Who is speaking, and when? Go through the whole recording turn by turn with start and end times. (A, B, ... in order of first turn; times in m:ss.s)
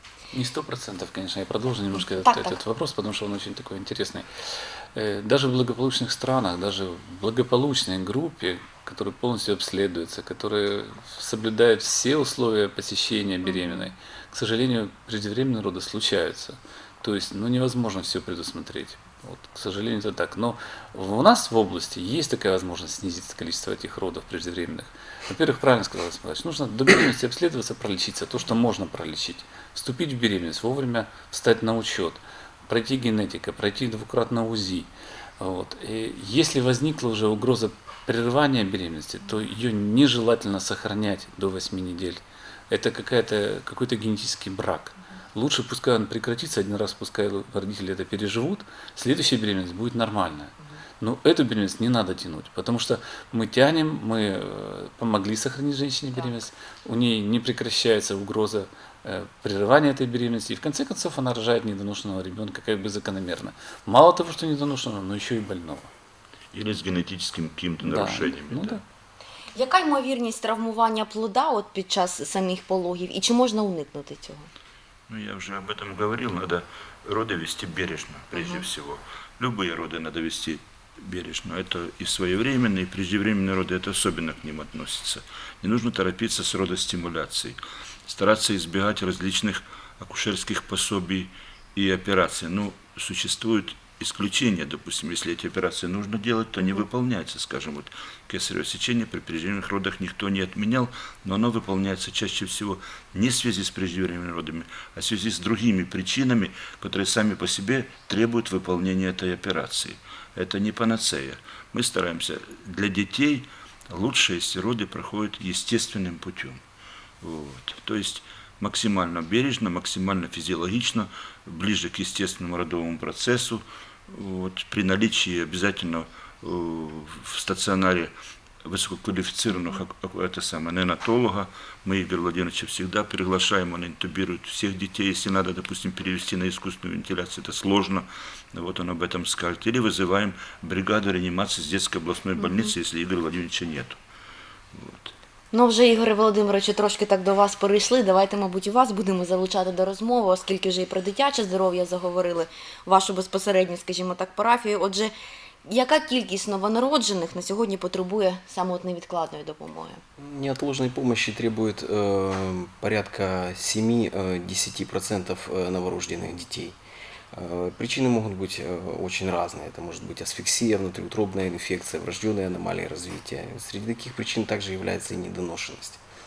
0:00.3-1:05.9 A
0:01.9-0:02.6 B
0:13.4-0:13.9 B
1:06.5-1:08.8 C
1:07.8-1:08.8 A
1:09.5-1:14.5 B
1:15.1-1:56.6 C
1:18.3-1:18.6 B
1:57.2-2:08.1 C
2:08.6-2:24.0 C
2:22.4-2:22.7 B
2:24.7-2:25.1 C
2:25.5-2:35.1 B
2:35.7-2:40.0 B
2:40.2-2:46.8 D
2:47.3-2:56.0 D